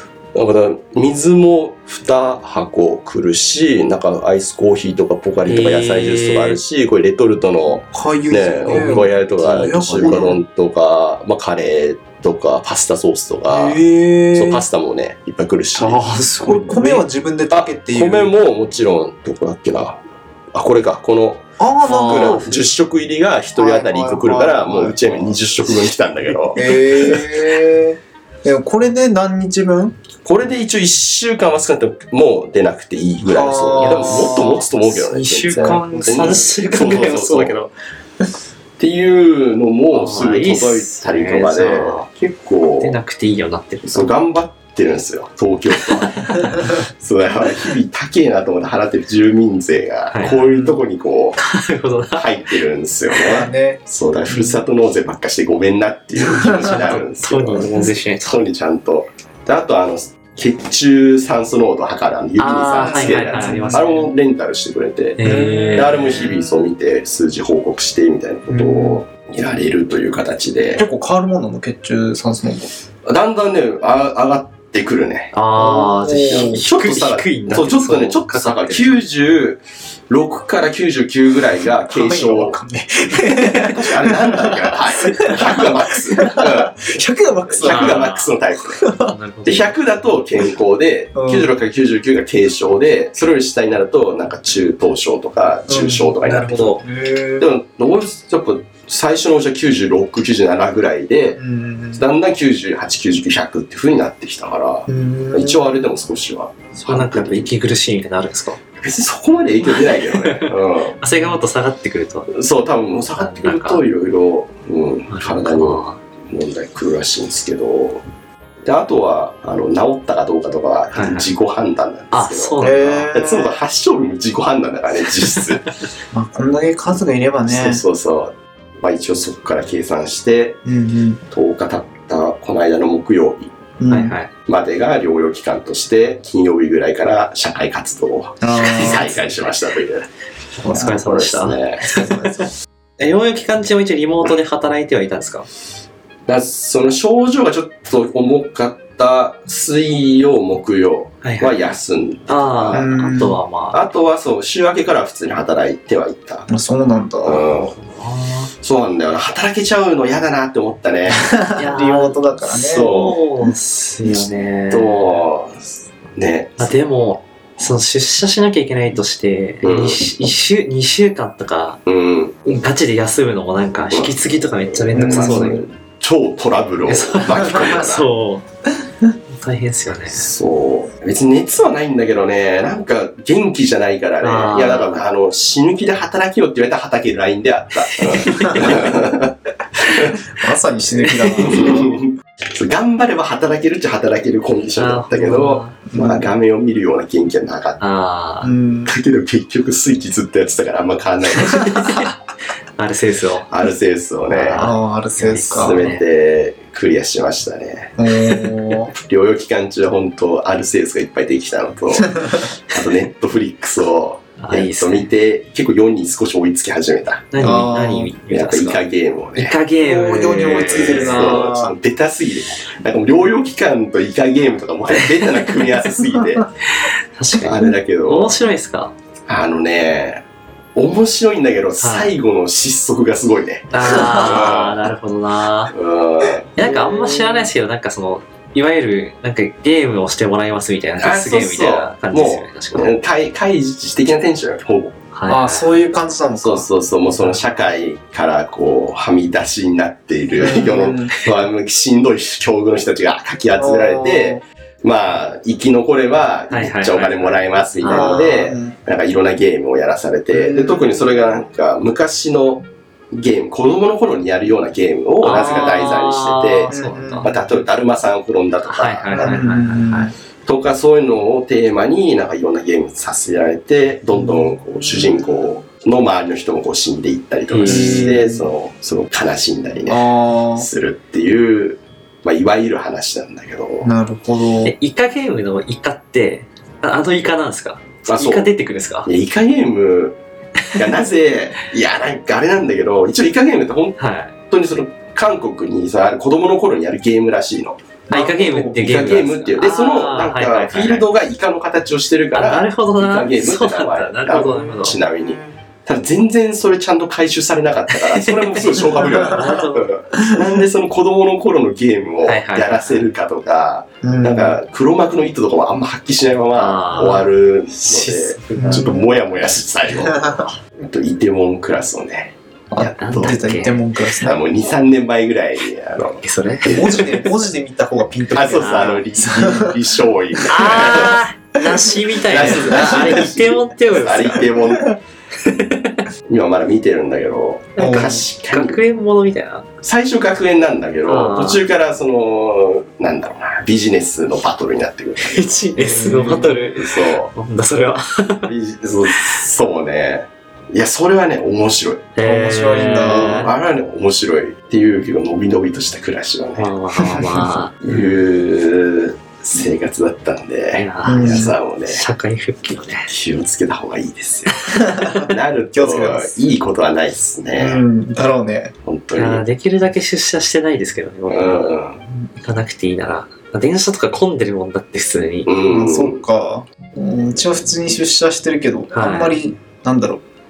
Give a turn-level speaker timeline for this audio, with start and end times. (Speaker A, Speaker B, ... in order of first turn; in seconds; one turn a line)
Speaker A: 0.3-13.8
Speaker B: 5.5-6.6
Speaker C: 7.9-10.3
Speaker B: 8.7-10.3
Speaker C: 13.5-14.6
Speaker A: 14.3-16.1
Speaker B: 15.8-17.0
Speaker C: 16.4-18.3
Speaker A: 17.5-20.0
Speaker A: 20.5-27.2
Speaker C: 21.6-22.6
Speaker B: 21.9-22.6
Speaker C: 23.5-25.4
Speaker C: 26.5-29.9
Speaker A: 30.2-37.6
Speaker C: 33.2-34.6
Speaker B: 33.8-37.7
Speaker A: 38.8-43.0
Speaker B: 39.9-42.1
Speaker B: 42.8-44.2
Speaker A: 43.9-51.4
Speaker B: 45.8-46.5
Speaker B: 50.1-50.4
Speaker C: 50.2-50.8
Speaker B: 51.4-52.3
Speaker A: 52.1-70.8
Speaker C: 53.2-54.6
Speaker B: 56.6-58.4
Speaker B: 62.4-64.1
Speaker C: 62.8-64.0
Speaker B: 65.2-66.3
Speaker C: 65.2-66.7
Speaker C: 68.5-69.0
Speaker C: 70.8-72.7
Speaker A: 73.0-75.3
Speaker B: 75.3-79.0
Speaker C: 75.5-76.6
Speaker A: 76.3-82.6
Speaker C: 81.9-88.1
Speaker A: 83.4-86.9
Speaker A: 87.5-88.9
Speaker B: 87.6-88.3
Speaker C: 88.8-89.1
Speaker B: 89.0-89.7
Speaker A: 89.4-96.7
Speaker C: 91.1-91.5
Speaker C: 95.7-97.5
Speaker B: 96.3-96.8
Speaker A: 97.4-101.4
Speaker C: 101.4-102.0
Speaker A: 101.9-107.5
Speaker C: 104.9-105.7
Speaker B: 106.8-108.6
Speaker A: 108.8-111.0
Speaker B: 109.6-112.3
Speaker A: 112.3-118.0
Speaker B: 113.1-113.8
Speaker B: 115.1-116.0
Speaker A: 118.6-125.7
Speaker B: 120.9-121.3
Speaker B: 122.1-123.1
Speaker C: 122.6-123.5
Speaker C: 126.1-127.8
Speaker A: 127.5-130.6
Speaker C: 130.6-131.2
Speaker A: 131.3-133.5
Speaker C: 133.8-134.1
Speaker B: 133.9-134.3
Speaker A: 134.4-140.1
Speaker C: 138.4-139.2
Speaker B: 140.6-142.5
Speaker C: 140.6-141.0
Speaker A: 140.7-141.9
Speaker C: 141.8-142.5
Speaker B: 143.0-145.5
Speaker A: 146.3-152.9
Speaker B: 151.2-151.6
Speaker B: 152.3-153.8
Speaker C: 152.7-153.4
Speaker A: 153.7-156.5
Speaker C: 156.5-157.4
Speaker A: 157.2-157.7
Speaker B: 157.6-158.5
Speaker A: 158.6-161.4
Speaker C: 161.2-162.9
Speaker B: 161.5-165.2
Speaker A: 162.6-163.2
Speaker A: 164.1-166.8
Speaker B: 166.6-171.8
Speaker A: 169.6-170.1
Speaker A: 171.8-172.5
Speaker B: 172.4-175.6
Speaker A: 173.9-178.1
Speaker C: 174.9-175.6
Speaker B: 176.9-178.5
Speaker B: 179.3-180.3
Speaker A: 180.1-190.2
Speaker B: 184.2-185.0
Speaker B: 187.9-188.9
Speaker C: 190.3-191.9
Speaker B: 191.0-191.6
Speaker A: 191.4-197.8
Speaker B: 194.8-195.8
Speaker C: 195.9-196.3
Speaker B: 197.8-198.5
Speaker C: 198.4-198.9
Speaker A: 198.8-202.1
Speaker B: 201.3-202.1
Speaker B: 202.8-203.5
Speaker A: 203.5-204.7
Speaker B: 204.3-206.0
Speaker C: 204.5-205.8
Speaker A: 205.5-207.9
Speaker C: 208.0-208.9
Speaker B: 208.2-208.5
Speaker A: 208.9-217.6
Speaker B: 214.4-215.1
Speaker B: 217.3-218.8
Speaker C: 217.4-218.1
Speaker A: 218.3-219.6
Speaker B: 219.3-221.5
Speaker C: 219.8-221.7
Speaker A: 220.3-226.5
Speaker B: 224.9-225.7
Speaker B: 226.7-228.9
Speaker A: 227.4-228.4
Speaker A: 229.3-230.2
Speaker A: 230.7-234.8
Speaker B: 231.8-232.1
Speaker B: 233.7-235.7
Speaker A: 235.7-236.5
Speaker B: 236.6-243.0
Speaker C: 236.6-237.5
Speaker A: 241.0-245.0
Speaker B: 245.1-245.7
Speaker C: 245.3-246.7
Speaker A: 246.4-269.4
Speaker C: 250.4-251.1
Speaker C: 253.6-254.4
Speaker B: 256.5-258.5
Speaker C: 257.9-258.7
Speaker C: 260.3-261.1
Speaker B: 265.2-267.3
Speaker C: 266.7-267.4
Speaker B: 268.7-270.1
Speaker C: 269.1-270.1
Speaker A: 270.4-283.9
Speaker C: 274.2-274.5
Speaker C: 275.0-275.3
Speaker B: 277.5-278.1
Speaker C: 277.6-278.5
Speaker C: 279.9-280.7
Speaker C: 283.8-284.7
Speaker B: 284.6-289.1
Speaker A: 288.1-288.5
Speaker A: 289.1-290.2
Speaker A: 290.7-294.0
Speaker B: 294.0-294.3
Speaker A: 294.5-297.8
Speaker C: 298.1-298.9
Speaker B: 298.1-301.1
Speaker A: 298.7-323.4
Speaker B: 302.3-305.0
Speaker B: 307.9-309.9
Speaker B: 312.2-313.1
Speaker C: 314.0-314.6
Speaker B: 316.5-319.0
Speaker C: 318.6-319.1
Speaker C: 320.0-320.4
Speaker C: 322.7-324.4
Speaker B: 323.0-323.9
Speaker A: 324.2-327.2
Speaker B: 326.2-327.2
Speaker C: 326.6-329.8
Speaker A: 328.3-331.2
Speaker B: 328.5-329.0
Speaker B: 330.5-334.4
Speaker A: 332.3-335.0
Speaker C: 332.4-333.1
Speaker B: 335.4-336.0
Speaker A: 336.3-338.8
Speaker B: 337.8-339.7
Speaker C: 337.8-338.2
Speaker A: 339.8-345.6
Speaker B: 341.1-341.6
Speaker B: 345.2-348.5
Speaker C: 345.8-346.6
Speaker A: 346.8-347.3
Speaker A: 348.5-352.1
Speaker B: 349.1-349.4
Speaker B: 352.1-353.5
Speaker C: 352.2-353.5
Speaker A: 352.8-356.7
Speaker B: 356.6-358.2
Speaker C: 357.0-357.4
Speaker A: 357.8-362.0
Speaker B: 360.7-363.1
Speaker C: 361.0-361.5
Speaker A: 363.1-367.8
Speaker C: 364.8-366.4
Speaker B: 365.0-365.2
Speaker C: 367.5-368.7
Speaker A: 368.8-369.4
Speaker B: 369.1-371.7
Speaker A: 371.3-372.0
Speaker B: 372.4-375.5
Speaker A: 375.4-376.2
Speaker C: 375.6-380.2
Speaker B: 378.9-379.4